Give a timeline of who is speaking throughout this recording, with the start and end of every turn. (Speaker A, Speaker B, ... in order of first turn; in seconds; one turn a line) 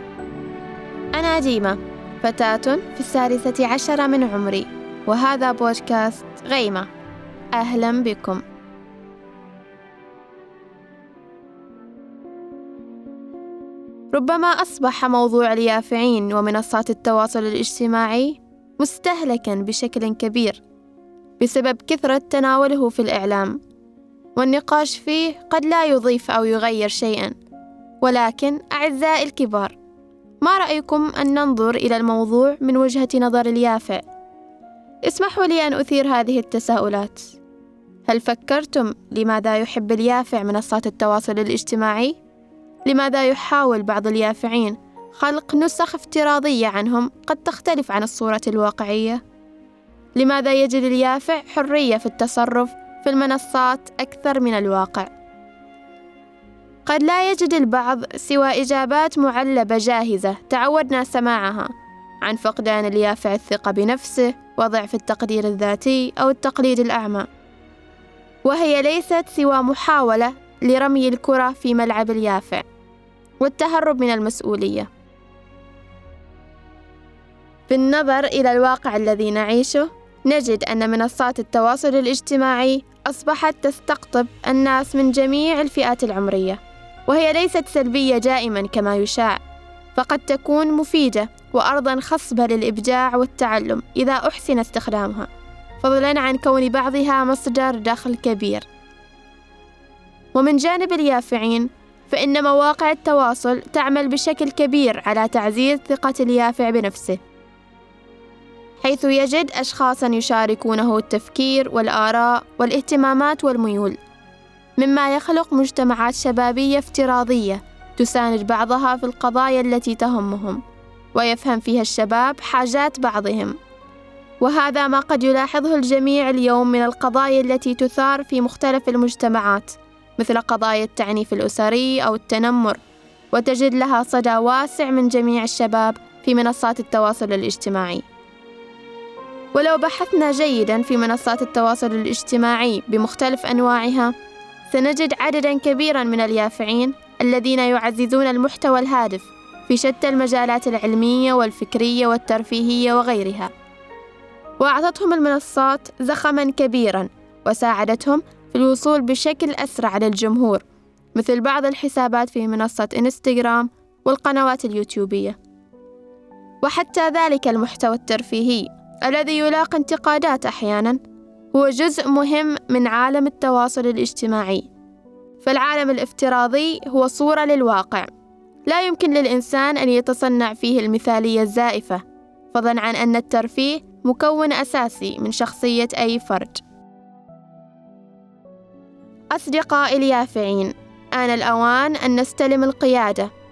Speaker A: 1.1-6.9
Speaker A: 7.5-8.4
Speaker A: 14.1-20.6
Speaker A: 21.4-23.6
Speaker A: 24.4-27.4
Speaker A: 28.0-29.8
Speaker A: 30.4-34.0
Speaker A: 35.0-37.3
Speaker A: 38.1-42.2
Speaker A: 42.9-49.2
Speaker A: 50.2-55.1
Speaker A: 56.9-61.7
Speaker A: 62.2-67.3
Speaker A: 68.5-72.7
Speaker A: 73.4-74.9
Speaker A: 77.7-89.4
Speaker A: 90.0-95.3
Speaker A: 95.8-98.7
Speaker A: 100.3-107.2
Speaker A: 108.8-114.0
Speaker A: 114.8-120.6
Speaker A: 121.1-123.6
Speaker A: 124.4-132.8
Speaker A: 133.3-138.1
Speaker A: 139.5-144.1
Speaker A: 144.7-153.5
Speaker A: 154.6-160.6
Speaker A: 161.2-165.4
Speaker A: 166.6-171.0
Speaker A: 171.5-174.7
Speaker A: 175.4-178.1
Speaker A: 178.7-186.6
Speaker A: 189.3-193.3